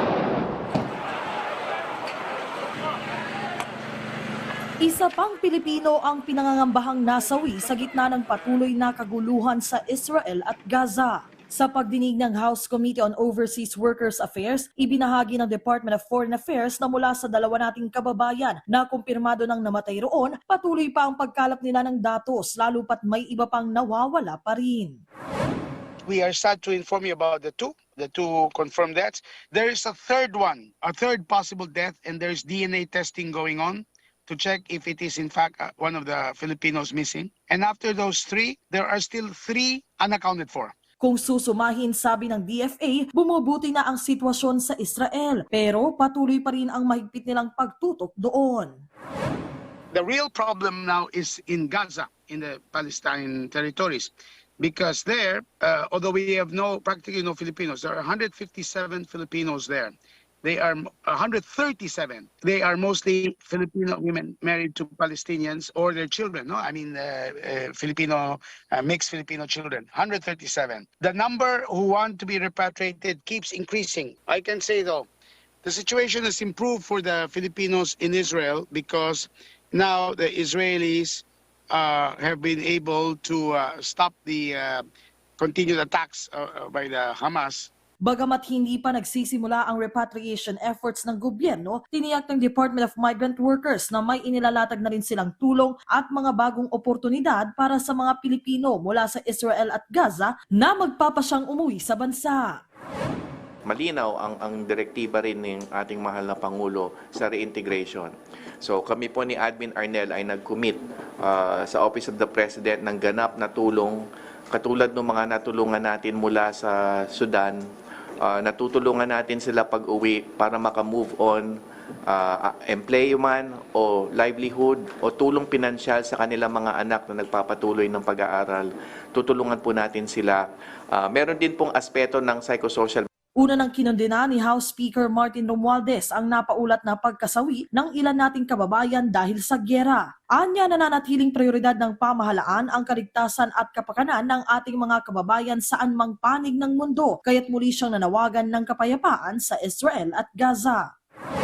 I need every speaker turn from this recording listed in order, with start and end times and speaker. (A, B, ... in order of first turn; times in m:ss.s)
0:04.8-0:25.0 A
0:26.0-0:40.7 B
0:41.0-0:48.8 A
0:49.9-1:15.1 B
1:15.6-1:24.9 B
1:25.4-1:27.7 B
1:28.0-1:42.6 A
1:43.6-1:57.6 C
1:58.2-2:13.1 C
2:13.4-2:30.9 A